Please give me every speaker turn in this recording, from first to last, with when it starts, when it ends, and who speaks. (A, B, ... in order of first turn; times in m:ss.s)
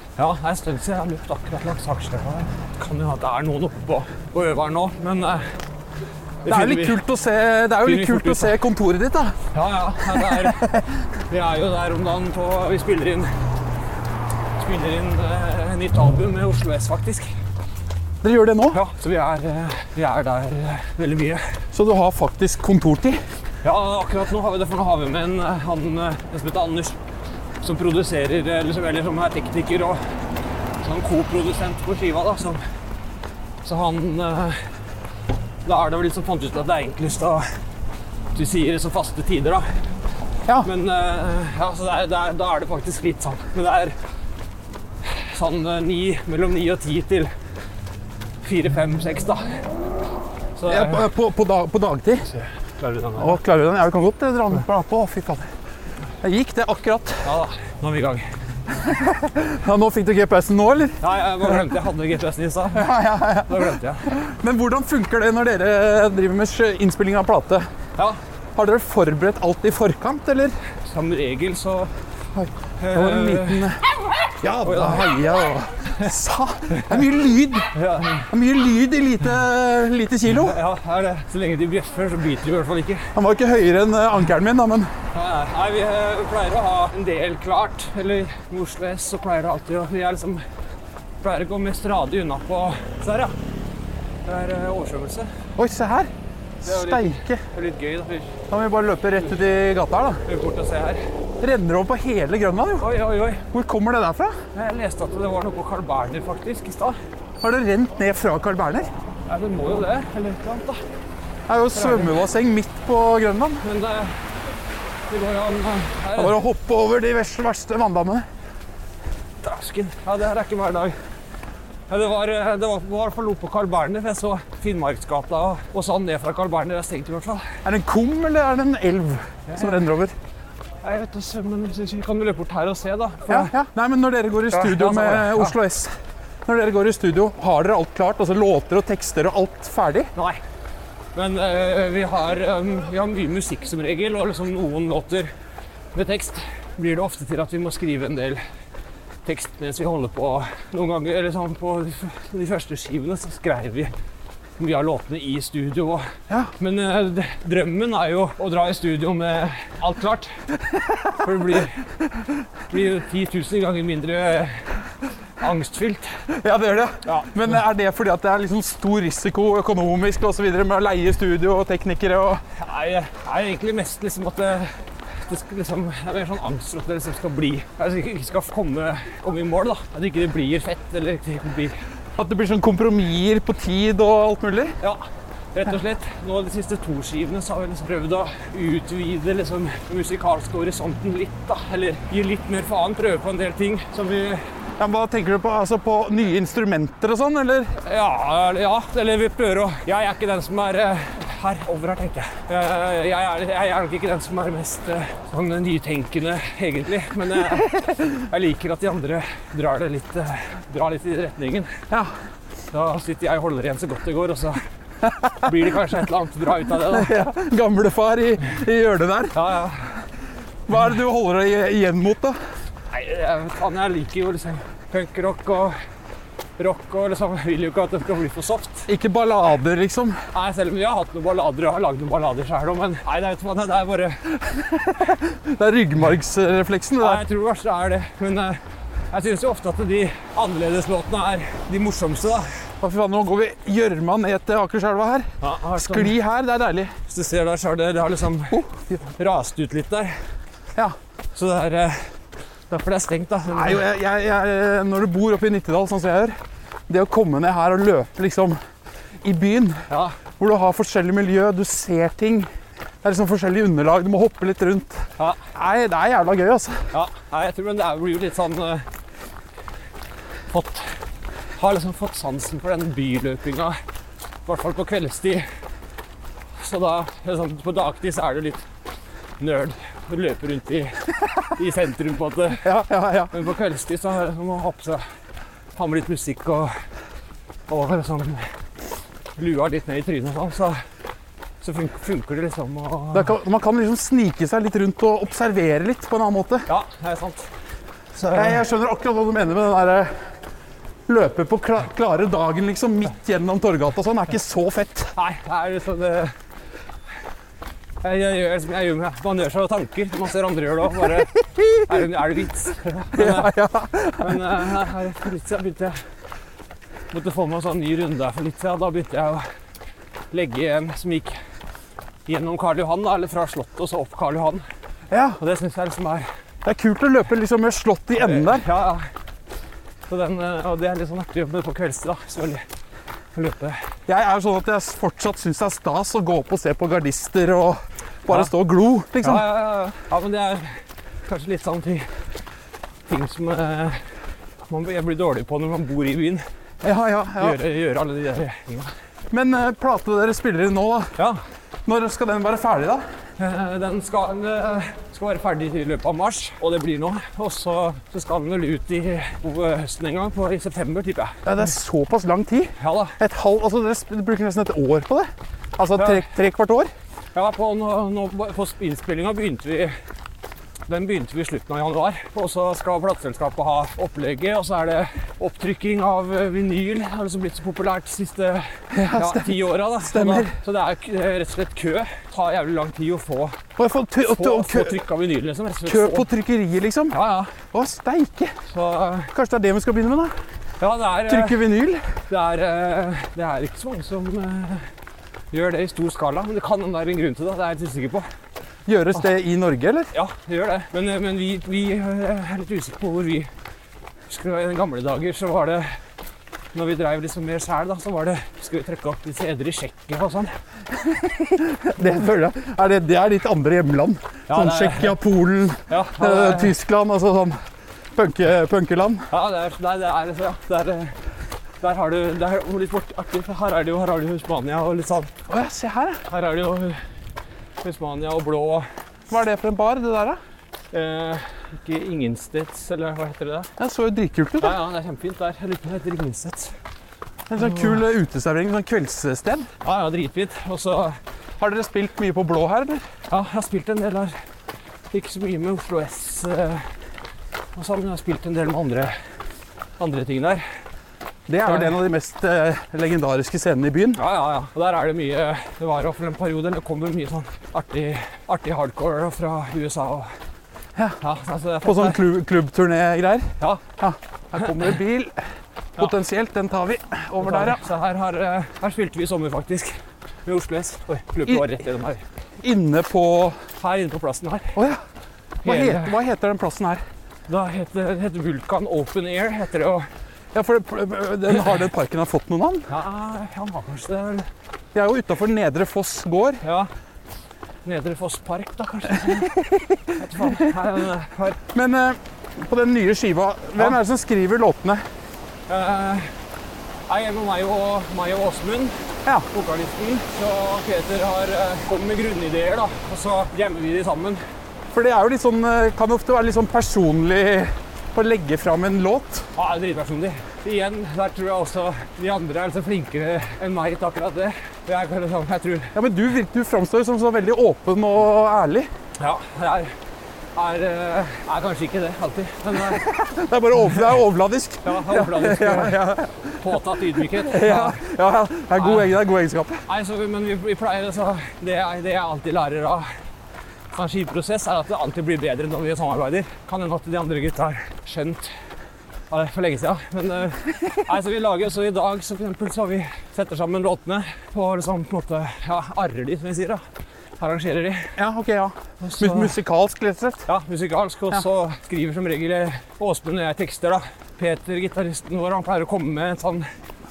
0:00.2-0:05.4 A
0:06.4-0:07.0 A
0:06.4-0:09.4 B
0:07.8-0:08.6 A
0:09.5-0:10.6 A
0:10.1-0:10.8 B
0:11.3-0:13.3 A
0:14.6-0:17.3 A
0:18.2-0:18.8 B
0:18.7-0:21.4 A
0:21.7-0:23.2 B
0:23.6-0:27.0 A
0:27.6-0:30.0 A
0:30.8-0:32.6 A
0:33.6-0:34.6 A
0:35.6-0:37.4 A
0:38.3-0:39.7 A
0:40.6-0:44.0 A
0:45.0-0:47.3 A
0:48.4-0:49.6 A
0:50.6-0:51.0 A
0:50.7-0:52.3 B
0:52.8-0:53.4 A
0:53.2-0:55.5 B
0:56.2-0:57.3 B
0:57.2-0:58.3 A
0:58.8-1:01.0 B
1:01.0-1:02.9 A
1:02.7-1:07.7 B
1:03.4-1:04.1 A
1:08.5-1:10.6 B
1:10.9-1:11.9 A
1:12.3-1:13.8 B
1:12.8-1:13.7 A
1:14.4-1:17.7 B
1:14.6-1:15.1 A
1:17.7-1:18.3 A
1:18.3-1:20.6 B
1:20.4-1:23.1 A
1:23.1-1:24.9 B
1:25.1-1:30.4 A
1:31.2-1:33.4 A
1:34.2-1:35.3 A
1:35.6-1:36.1 B
1:36.6-1:37.4 B
1:36.6-1:38.3 A
1:38.5-1:40.2 B
1:40.2-1:41.0 A
1:41.4-1:42.9 B
1:42.8-1:43.4 A
1:43.5-1:44.4 B
1:44.5-1:47.0 A
1:47.4-1:48.9 B
1:49.3-1:50.8 A
1:51.5-1:53.6 B
1:51.7-1:52.1 A
1:53.6-1:54.2 A
1:55.1-1:56.4 A
1:56.2-1:58.3 B
1:59.4-2:01.0 A
2:01.9-2:07.5 A
2:07.6-2:10.1 B
2:09.5-2:09.7 A
2:10.8-2:13.5 A
2:13.3-2:15.9 B
2:14.5-2:15.5 A
2:16.4-2:20.1 B
2:20.1-2:20.4 A
2:21.1-2:25.3 A
2:25.9-2:28.4 A
2:29.2-2:33.9 A
2:34.6-2:40.3 A
2:41.2-2:41.8 A
2:42.7-2:44.7 A
2:45.4-2:46.2 A
2:46.3-2:52.4 B
2:47.0-2:47.3 A
2:52.5-3:01.8 A
3:02.2-3:04.8 B
3:04.8-3:14.4 A
3:14.8-3:17.7 B
3:17.8-3:31.8 A
3:32.7-3:34.6 A
3:35.1-3:35.3 B
3:35.4-3:37.1 A
3:36.9-3:39.4 B
3:39.3-3:40.0 A
3:40.7-3:42.4 B
3:42.9-3:45.8 A
3:46.6-3:48.9 A
3:48.9-3:50.2 B
3:50.3-3:54.3 A
3:54.4-3:57.2 B
3:57.0-3:58.6 A
3:59.1-4:02.5 A
4:02.8-4:06.9 B
4:05.4-4:06.1 A
4:07.1-4:10.2 A
4:08.5-4:09.0 B
4:11.3-4:12.1 A
4:12.7-4:13.8 A
4:13.5-4:16.4 B
4:16.9-4:18.6 B
4:19.2-4:19.8 B
4:19.9-4:20.2 A
4:20.4-4:22.5 B
4:23.0-4:26.9 B
4:26.9-4:28.8 A
4:30.5-4:30.9 A
4:31.6-4:33.8 A
4:34.4-4:35.5 A
4:36.6-4:38.6 A
4:39.4-4:42.7 A
4:42.6-4:43.3 B
4:43.3-4:45.0 A
4:45.8-4:46.7 A
4:47.7-4:48.5 A
4:49.4-4:50.8 A
4:51.6-4:53.3 A
4:53.1-4:56.7 B
4:56.7-4:57.5 A
4:58.1-4:58.6 A
4:58.3-5:00.1 B
5:01.1-5:05.1 B
5:05.2-5:06.3 A
5:08.0-5:13.5 A
5:13.1-5:14.6 B
5:14.2-5:16.0 A
5:17.1-5:19.5 A
5:20.3-5:21.4 A
5:22.2-5:24.6 A
5:25.1-5:25.4 B
5:25.4-5:26.3 A
5:26.6-5:28.7 B
5:28.2-5:29.1 A
5:30.1-5:32.6 A
5:33.3-5:33.8 A
5:34.1-5:39.5 B
5:39.2-5:42.1 A
5:43.1-5:44.0 A
5:44.7-5:46.4 A
5:46.8-5:47.6 B
5:47.4-5:48.9 A
5:49.3-5:51.1 B
5:51.8-5:53.0 B
5:53.4-6:01.4 A
6:01.4-6:06.9 B
6:02.8-6:03.2 A
6:06.0-6:06.2 A
6:07.3-6:09.9 A
6:10.9-6:23.6 A
6:18.9-6:20.5 B
6:23.8-6:25.0 B
6:24.3-6:26.3 A
6:25.8-6:28.5 B
6:27.1-6:27.5 A
6:28.7-6:29.3 A
6:29.3-6:30.3 B
6:30.8-6:31.6 A
6:31.2-6:32.0 B
6:32.3-6:34.9 A
6:35.5-6:38.3 A
6:38.8-6:40.1 B
6:40.1-6:43.5 A
6:44.3-6:46.0 A
6:46.7-6:50.5 A
6:51.0-6:57.6 B
6:54.5-6:55.2 A
6:55.9-6:56.7 A
6:58.1-6:59.3 B
6:59.3-7:01.2 A
7:01.8-7:05.3 A
7:05.5-7:06.2 B
7:06.2-7:07.0 A
7:07.8-7:08.9 A
7:09.3-7:10.4 B
7:10.9-7:13.7 A
7:13.8-7:14.8 B
7:14.6-7:16.7 A
7:17.5-7:19.7 B
7:17.6-7:17.9 A
7:19.8-7:21.2 A
7:21.6-7:23.0 B
7:23.3-7:24.3 A
7:25.1-7:26.9 A
7:27.7-7:29.2 A
7:30.0-7:30.6 A
7:31.5-7:34.2 B
7:34.2-7:40.3 A
7:41.2-7:42.2 A
7:41.8-7:45.4 B
7:46.0-7:47.8 B
7:47.4-7:52.2 A
7:51.4-7:51.7 B
7:52.6-7:53.6 B
7:53.8-7:54.8 A
7:54.7-7:55.0 B
7:55.6-7:57.0 B
7:55.6-7:56.1 A
7:57.5-8:00.1 A
8:00.5-8:02.9 B
8:02.9-8:04.5 A
8:04.9-8:06.6 B
8:06.6-8:06.9 A
8:07.8-8:09.6 A
8:09.3-8:10.6 B
8:10.1-8:11.6 A
8:11.7-8:15.0 B
8:15.7-8:16.3 A
8:17.1-8:19.0 A
8:19.5-8:24.4 A
8:24.9-8:29.5 B
8:29.6-8:35.9 A
8:35.9-8:38.9 B
8:39.2-8:39.9 A
8:40.5-8:43.1 A
8:42.8-8:46.5 B
8:44.8-8:48.0 A
8:47.3-8:49.8 B
8:48.8-8:49.1 A
8:49.8-8:53.1 A
8:53.9-8:58.5 A
8:59.3-9:06.8 A
9:07.4-9:08.1 A
9:08.2-9:10.4 B
9:09.0-9:09.5 A
9:10.4-9:16.7 A